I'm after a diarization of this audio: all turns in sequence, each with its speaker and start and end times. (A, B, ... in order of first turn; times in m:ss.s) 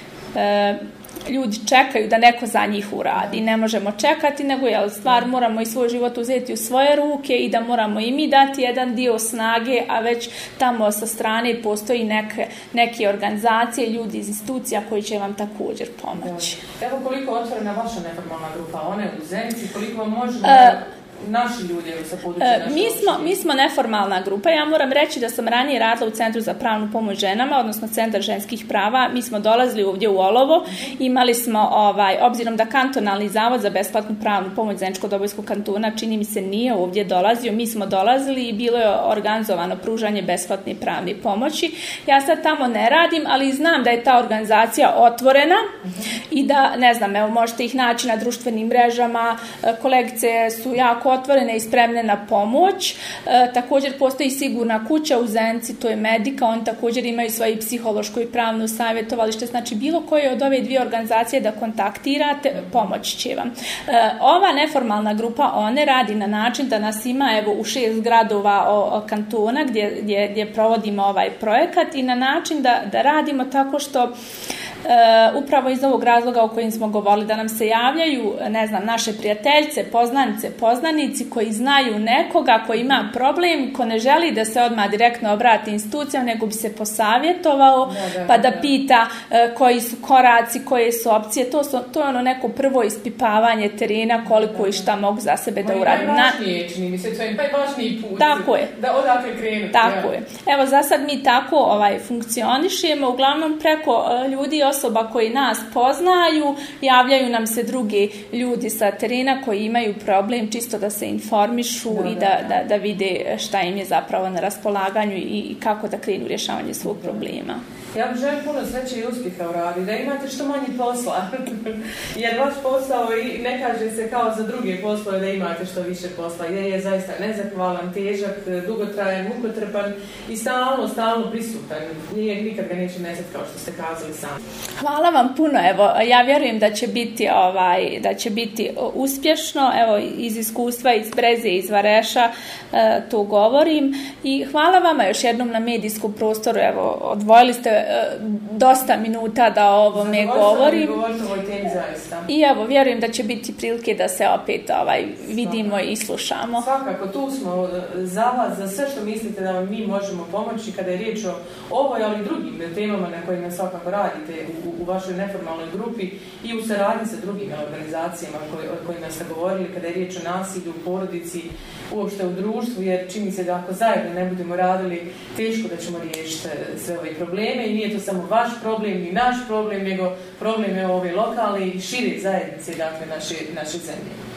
0:00.3-0:16.6 A
0:16.2-0:23.4 B
0:20.4-0:20.8 A
0:22.4-0:45.6 A
0:46.3-1:14.1 A
1:14.8-1:36.4 A
1:27.8-1:28.7 B
1:35.6-1:40.1 B
1:38.2-1:38.7 A
1:39.7-1:57.6 A
1:51.9-1:52.4 B
1:57.9-2:14.4 B
2:14.8-2:31.0 A
2:29.9-2:32.3 B
2:32.3-2:36.6 A
2:35.4-2:35.7 B
2:36.6-3:04.2 B